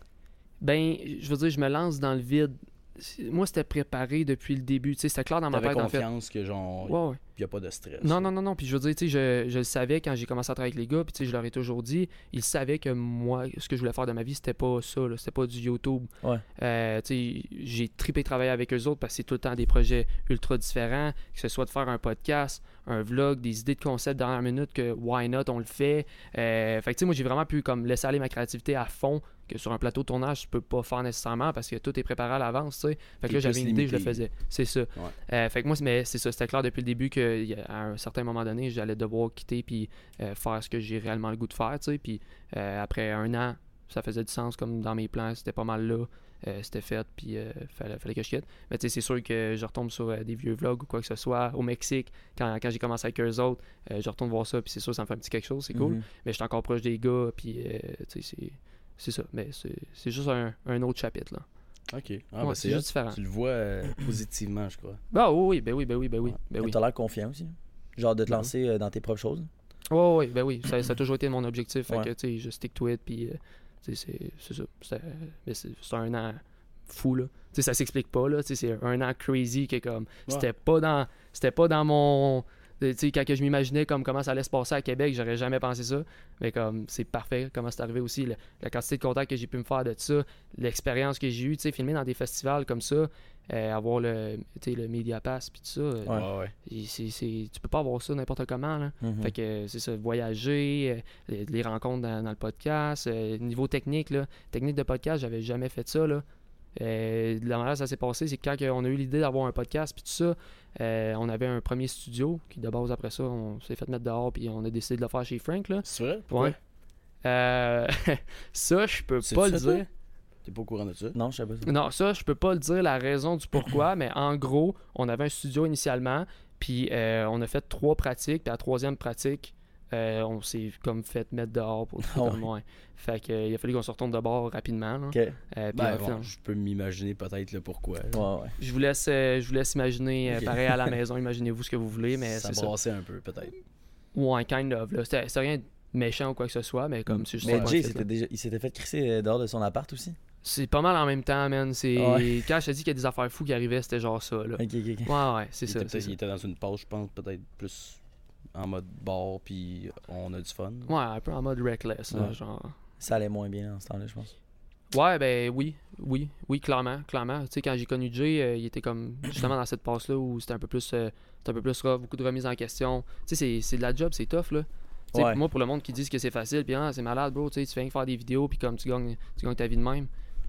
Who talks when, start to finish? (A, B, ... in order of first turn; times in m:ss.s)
0:00.6-0:06.0 A
0:05.5-0:08.3 B
0:06.8-0:07.2 A
0:08.0-1:01.4 A
0:33.3-0:34.2 B
0:55.7-0:56.0 C
1:01.9-1:05.0 B
1:02.4-1:03.2 A
1:05.1-1:06.8 A
1:06.6-1:09.5 C
1:09.9-1:46.2 A
1:36.1-1:36.5 B
1:39.0-1:39.3 C
1:46.7-1:56.6 A
1:55.8-1:56.6 B
1:57.2-1:59.8 A
1:59.2-1:59.9 B
2:00.4-2:01.2 B
2:01.1-2:01.7 C
2:01.6-2:16.3 A
2:12.0-2:12.4 C
2:15.1-2:15.4 C
2:15.7-2:18.2 B
2:18.1-2:18.5 C
2:18.6-2:22.7 A
2:20.3-2:20.9 B
2:22.3-2:23.5 B
2:24.1-2:28.0 A
2:27.1-2:30.2 C
2:27.4-2:27.7 B
2:30.4-2:36.1 A
2:32.0-2:32.4 C
2:34.6-2:35.1 C
2:35.7-2:38.0 B
2:38.5-2:40.9 B
2:40.9-2:42.7 A
2:43.0-2:44.3 C
2:44.9-3:00.1 A
2:55.1-2:55.4 C